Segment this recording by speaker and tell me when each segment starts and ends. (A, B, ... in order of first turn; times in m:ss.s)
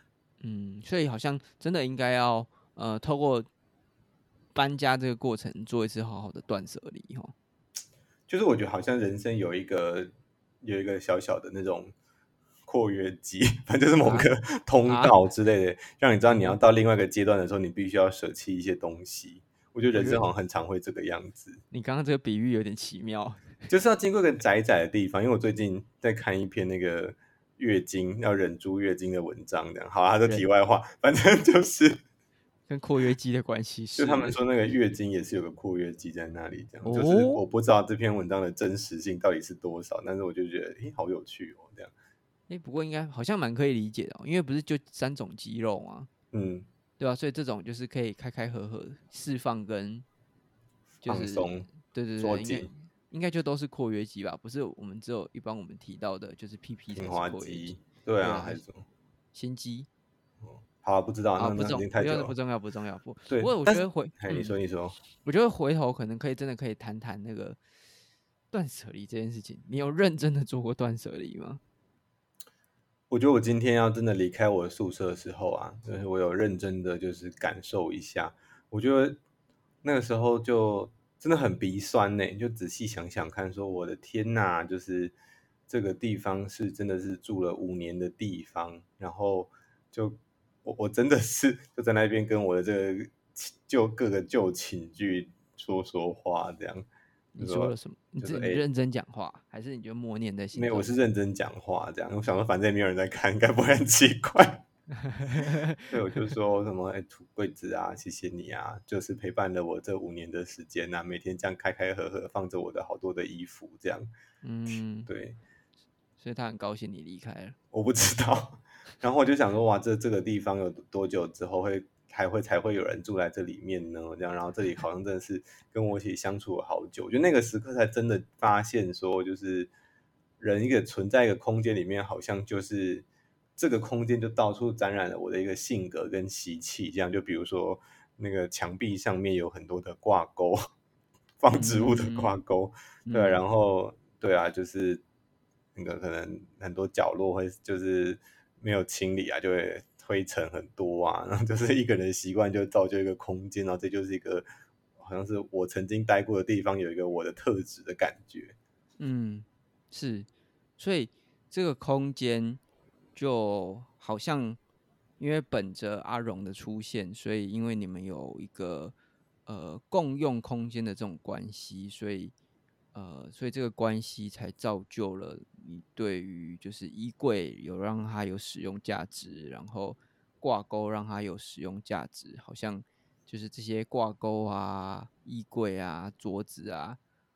0:00.4-0:03.5 A
0:04.5-0:07.3 A
0:08.3-0:10.1 B
0:10.6-0:11.9 B
0:12.7-0:21.6 B
0:14.0-0:14.3 A
0:14.9-0:15.2 A
0:16.3-0:16.6 A
0:19.9-0:20.3 A
0:21.7-0:23.5 A
0:23.7-0:32.0 B
0:32.7-0:34.4 A
0:34.0-0:41.9 B
0:36.8-0:37.4 A
0:42.5-0:46.1 A
0:46.3-0:46.7 B
0:47.0-0:50.0 A
0:51.0-0:52.7 B
0:51.0-0:58.6 A
0:57.0-0:58.8 B
0:59.3-0:59.9 A
1:00.4-1:02.3 B
1:01.4-1:04.6 A
1:03.3-1:05.0 B
1:05.2-1:07.6 A
1:08.5-1:11.6 A
1:13.1-1:19.2 B
1:19.8-1:25.1 B
1:25.7-1:36.9 B
1:37.4-1:40.9 A
1:37.4-1:38.6 B
1:40.5-1:44.6 B
1:45.0-1:46.2 A
1:45.9-1:54.1 B
1:54.4-1:55.1 A
1:55.1-1:55.4 B
1:56.2-1:57.6 A
1:57.7-2:09.7 B
2:10.4-2:13.1 B
2:13.6-2:20.6 B
2:21.4-2:25.0 B
2:21.5-2:22.4 A
2:23.1-2:23.4 A
2:25.8-2:34.4 B
2:35.0-2:38.6 B
2:39.0-2:42.6 A
2:43.2-2:44.6 A
2:45.2-2:49.0 A
2:49.5-2:52.3 A
2:52.9-3:07.0 A